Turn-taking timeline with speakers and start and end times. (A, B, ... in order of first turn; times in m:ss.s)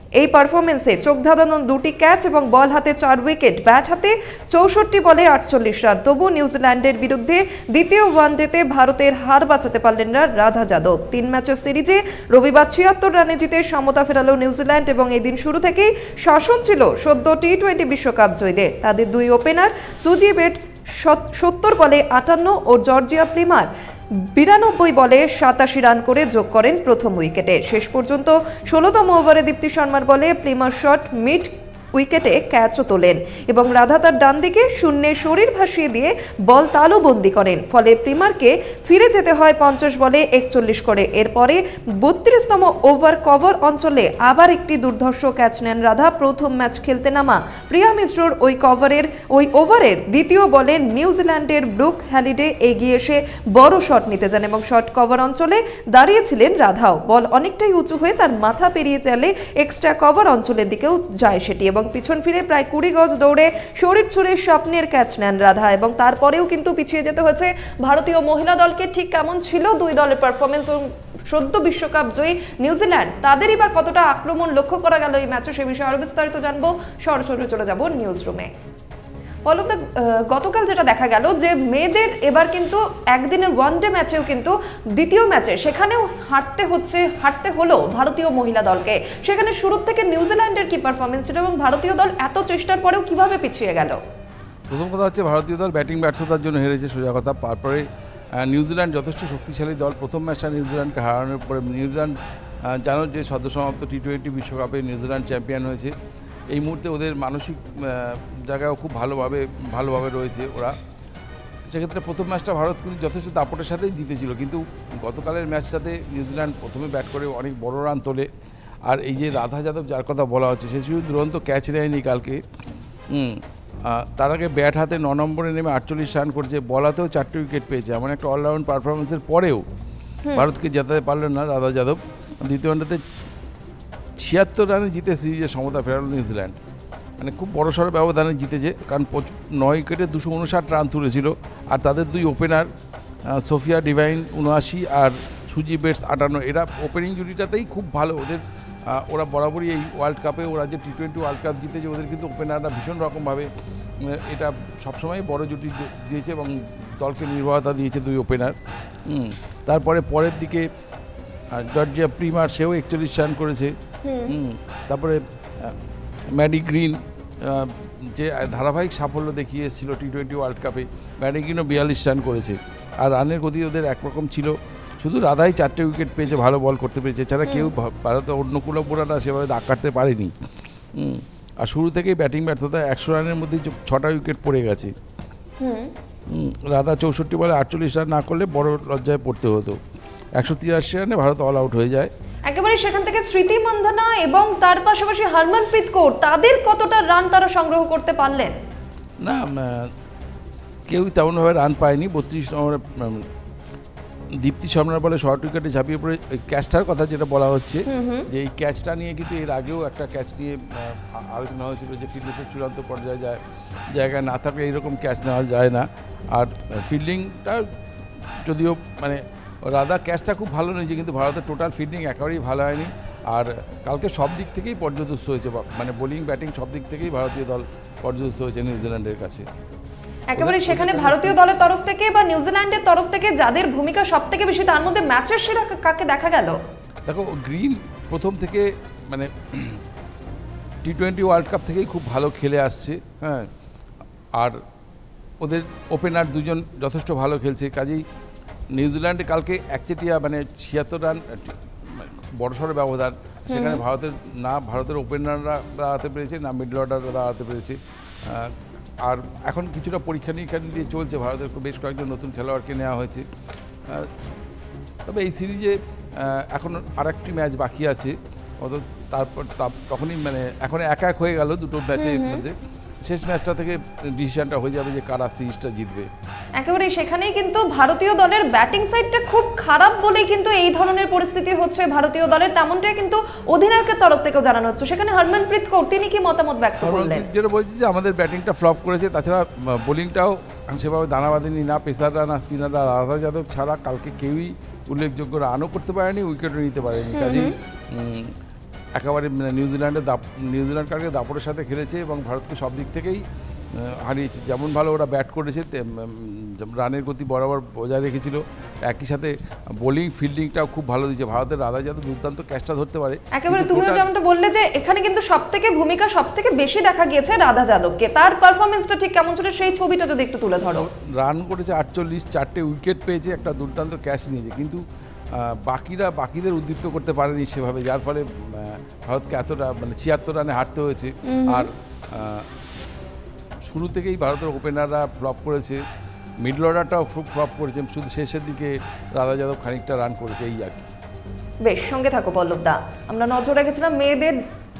0:00.2-0:23.7 A
0:24.3-1:18.5 A
1:19.4-1:34.0 A
1:34.7-1:37.8 B
1:38.4-1:45.9 B
1:46.5-1:50.8 B
1:51.7-1:58.3 B
1:58.8-2:02.4 B
2:03.1-2:09.6 B
2:10.3-2:13.0 B
2:14.2-2:16.6 B
2:17.2-2:22.7 B
2:23.3-2:33.5 B
2:34.0-2:38.6 B
2:39.1-2:40.6 B
2:41.5-2:43.7 B
2:44.0-2:44.3 A
2:44.3-2:45.8 B
2:46.3-3:00.3 B
2:57.4-2:57.7 A
3:00.9-3:04.9 B
3:05.6-3:05.9 A
3:06.3-3:09.8 B
3:10.4-3:12.1 B
3:12.5-3:18.5 A
3:19.2-3:19.9 B
3:20.9-3:23.2 B
3:24.4-3:33.4 B
3:27.9-3:28.3 A
3:33.9-3:37.6 B
3:38.4-3:49.4 B
3:50.3-3:56.6 A
3:50.4-3:51.4 B
3:57.1-3:59.8 B
4:00.8-4:03.5 B
4:05.4-4:08.0 B
4:08.7-4:23.2 B
4:13.5-4:13.8 A
4:25.1-4:36.1 B
4:32.0-4:32.4 A
4:36.6-4:47.2 A
4:46.8-4:58.3 B
4:57.1-4:57.5 A
4:59.0-5:14.1 B
5:13.3-5:20.9 A
5:20.7-5:24.8 B
5:25.4-5:32.4 B
5:31.3-5:31.7 A
5:33.6-5:35.8 B
5:36.4-5:40.8 B
5:41.6-5:44.4 A